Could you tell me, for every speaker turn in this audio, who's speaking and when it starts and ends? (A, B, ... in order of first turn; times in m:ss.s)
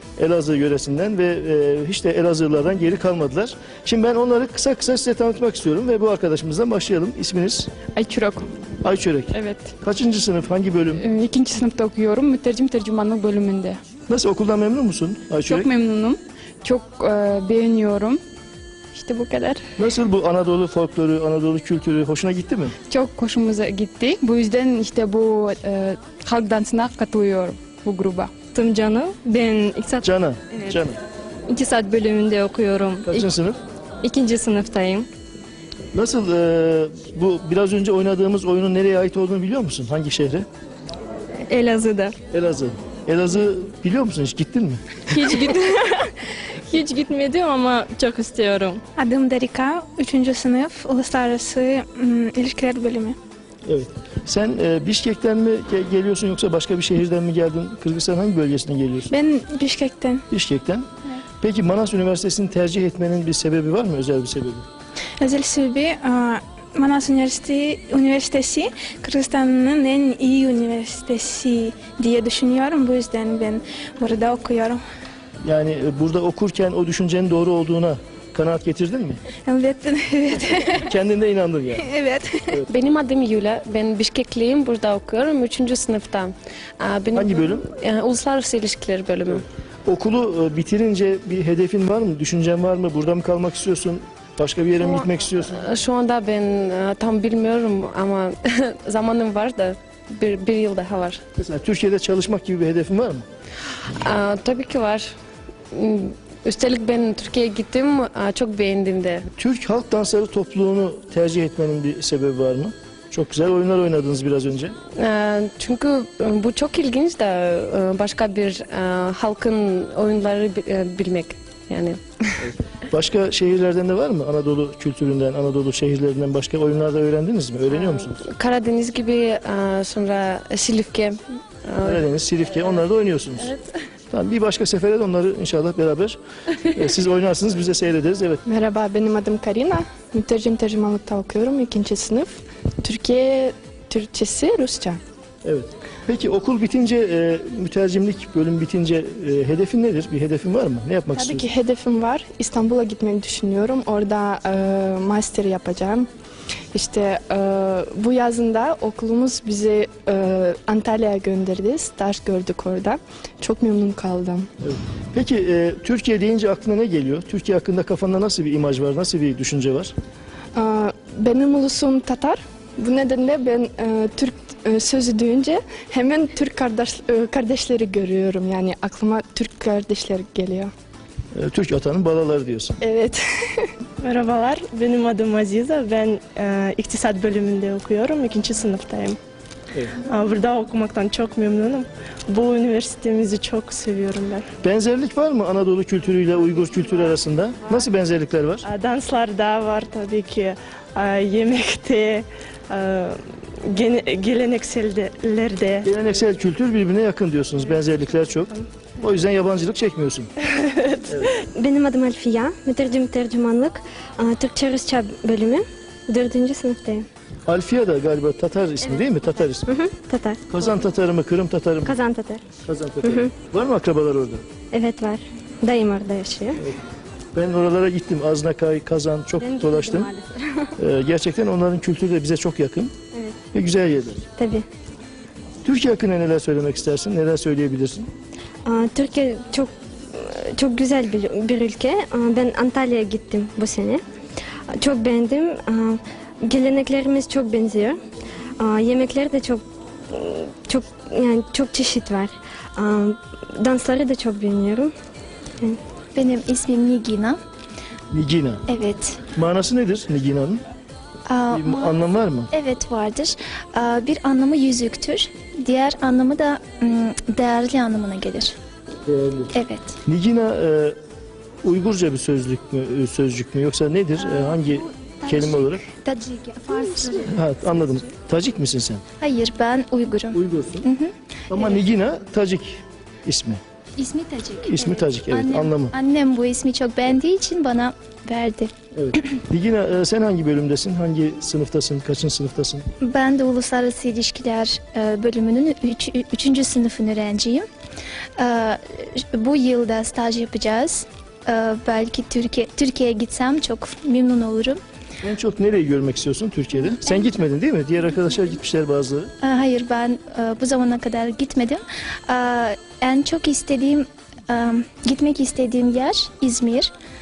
0:00.2-0:07.7 A
0:07.9-0:08.5 B
0:08.8-0:11.0 A
0:09.3-0:09.7 B
0:11.0-0:13.8 B
0:14.1-0:15.7 A
0:15.5-0:18.2 B
0:18.9-0:19.6 B
0:19.8-0:22.7 A
0:22.9-0:28.3 B
0:28.5-0:30.1 C
0:30.0-0:31.0 A
0:31.5-0:33.3 C
0:33.0-0:33.6 A
0:34.0-0:35.1 C
0:35.9-0:40.5 A
0:41.5-0:42.2 C
0:42.3-0:45.3 A
0:45.3-0:46.0 C
0:46.6-0:48.8 C
0:49.0-0:53.2 D
0:53.7-0:59.1 A
0:59.1-1:00.3 D
1:00.3-1:00.9 A
1:01.4-1:04.6 A
1:05.2-1:14.8 D
1:15.4-1:19.2 A
1:19.5-1:20.9 D
1:20.8-1:21.9 A
1:21.8-1:22.5 D
1:22.7-1:29.4 E
1:27.2-1:27.6 A
1:29.9-1:35.6 A
1:34.8-1:41.2 E
1:41.4-1:43.3 A
1:43.9-1:45.1 E
1:45.7-1:49.2 E
1:49.4-1:54.8 A
1:55.0-2:02.4 E
2:02.4-2:08.2 A
2:07.7-2:12.8 E
2:11.8-2:13.5 A
2:13.4-2:13.7 E
2:14.1-2:18.4 A
2:18.5-2:25.0 F
2:25.4-2:31.4 A
2:31.1-2:36.1 F
2:36.7-2:44.5 F
2:44.6-2:49.9 A
2:50.6-3:00.7 F
3:01.3-3:02.8 A
3:02.8-3:03.7 F
3:04.0-3:09.2 G
3:10.0-3:14.4 G
3:14.6-3:18.7 A
3:18.6-3:25.9 G
3:25.8-3:30.3 A
3:30.6-3:31.0 G
3:31.6-3:37.1 H
3:37.5-3:39.7 A
3:39.7-3:40.4 H
3:40.5-3:42.0 A
3:41.8-3:42.4 H
3:42.6-3:44.4 A
3:43.0-3:43.3 H
3:44.7-3:46.6 H
3:47.4-3:50.1 A
3:49.4-3:50.7 H
3:50.8-3:52.9 A
3:53.5-3:54.3 A
3:54.4-3:54.6 H
3:55.6-3:58.1 A
3:58.7-4:04.0 H
4:04.7-4:08.0 H
4:08.6-4:14.9 H
4:16.2-4:17.4 I
4:18.1-4:18.6 A
4:18.7-4:19.2 I
4:19.3-4:20.6 A
4:21.3-4:28.6 I
4:21.5-4:22.5 A
4:29.1-4:29.5 A
4:29.5-4:30.0 I
4:30.0-4:31.0 A
4:31.6-4:35.8 A
4:34.2-4:38.1 I
4:37.2-4:39.0 A
4:39.2-4:41.6 I
4:40.3-4:40.9 A
4:41.5-4:43.6 A
4:44.0-4:48.7 I
4:44.6-4:45.9 A
4:49.0-4:52.9 A
4:53.0-4:57.7 I
4:58.4-5:04.8 I
5:05.2-5:09.3 A
5:09.4-5:16.9 I